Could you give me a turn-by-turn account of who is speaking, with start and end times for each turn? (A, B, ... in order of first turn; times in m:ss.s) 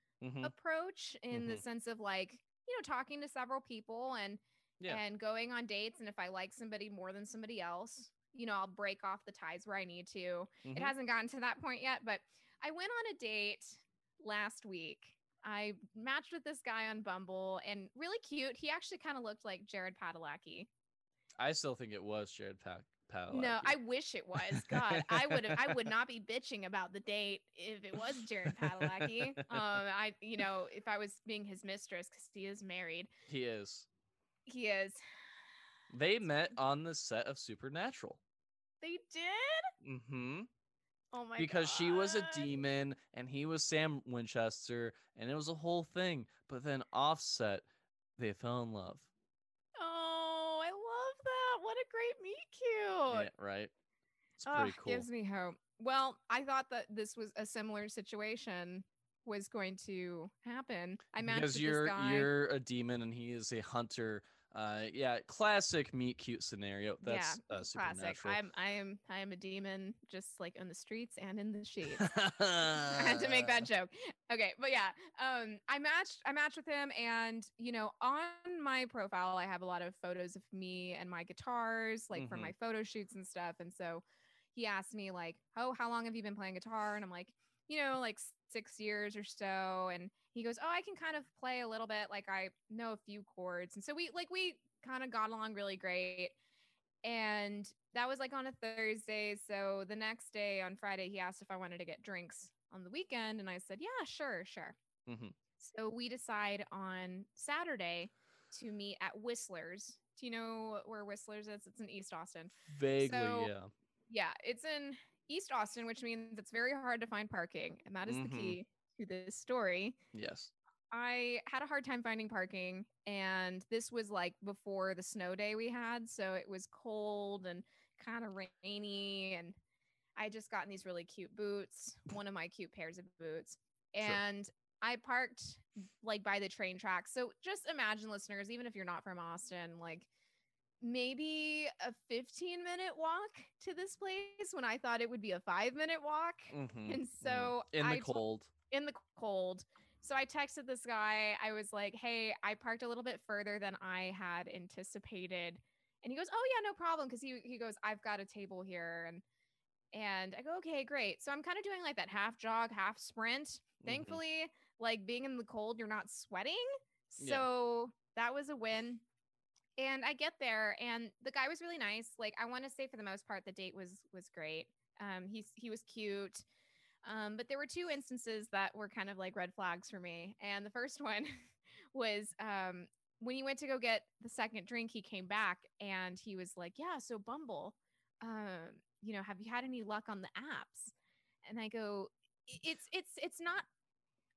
0:00.2-0:00.5 A
0:00.4-0:20.7 B
0:01.3-0:01.6 A
0:10.6-0:10.9 A
0:21.4-0:23.7 A
0:23.3-0:33.1 B
0:24.5-0:25.9 A
0:28.4-0:29.6 A
0:33.3-0:33.9 A
0:34.5-0:35.0 B
0:35.9-0:38.2 A
0:38.8-0:39.7 B
0:39.8-0:40.5 A
0:41.1-0:42.5 B
0:41.4-0:47.6 A
0:48.2-0:49.1 A
0:49.8-0:53.3 B
0:53.1-0:53.7 A
0:54.4-0:55.1 A
0:54.4-1:02.3 B
1:01.2-1:08.4 A
1:07.0-1:12.1 B
1:12.0-1:13.7 A
1:12.8-1:24.0 B
1:22.1-1:22.5 A
1:24.5-1:36.3 B
1:37.0-1:44.8 B
1:45.0-1:45.4 A
1:45.6-1:53.5 B
1:52.7-1:53.7 A
1:54.1-2:00.0 B
1:58.0-1:58.6 A
2:00.1-2:00.5 A
2:00.9-2:09.6 B
2:10.2-2:20.1 B
2:20.8-2:39.2 B
2:26.5-2:28.5 A
2:39.9-2:49.0 B
2:43.8-2:44.2 A
2:47.2-2:47.4 A
2:49.8-2:56.4 B
2:57.0-3:01.3 B
3:01.9-3:10.9 B
3:11.4-3:13.6 B